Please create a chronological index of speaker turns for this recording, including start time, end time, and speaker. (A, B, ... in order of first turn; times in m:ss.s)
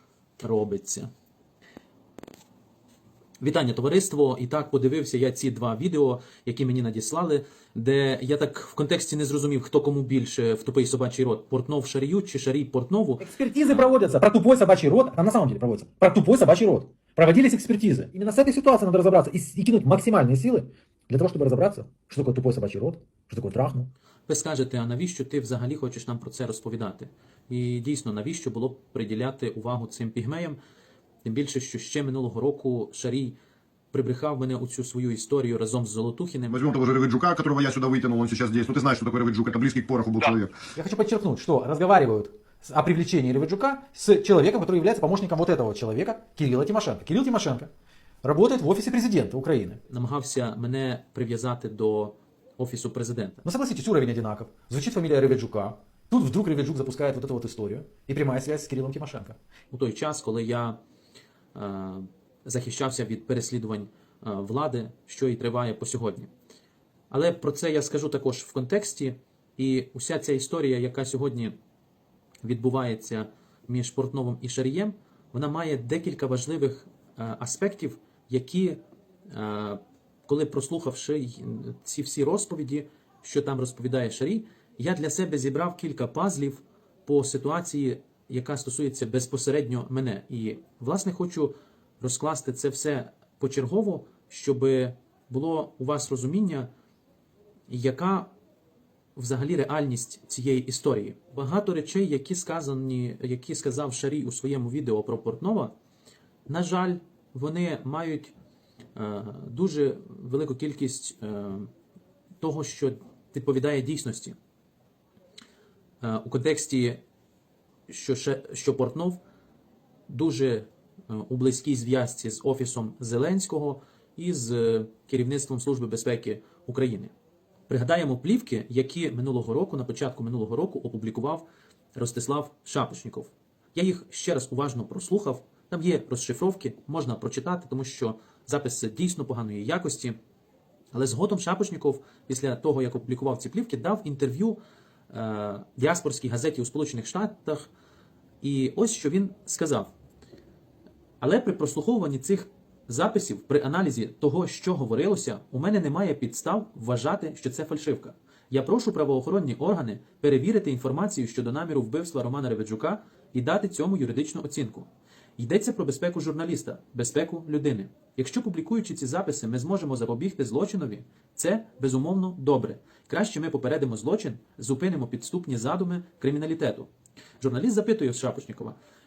0:00.4-0:01.1 A
0:03.4-0:14.0 A
0:13.2-0:23.9 B
0:24.3-0:30.6 A
0:31.2-0:33.4 A
0:33.9-0:36.7 A
0:36.5-0:40.5 C
0:40.7-0:47.7 B
0:48.2-0:49.8 B
0:49.9-0:53.4 A
0:53.4-0:59.4 B
0:59.7-1:00.8 A
1:01.5-1:06.3 A
1:07.1-1:11.6 A
1:12.4-1:18.8 A
1:19.3-1:36.7 A
1:37.7-1:38.3 A
1:39.2-1:45.7 A
1:46.5-1:48.3 A
1:48.9-1:51.7 A
1:52.4-1:54.4 A
1:56.0-1:57.0 A
1:57.9-1:59.2 A
2:00.1-2:07.1 A
2:07.7-2:11.4 A
2:12.0-2:20.2 A
2:20.9-2:24.6 A
2:25.1-2:27.7 A
2:28.4-2:29.9 A
2:31.2-2:56.9 A
2:57.4-2:58.8 A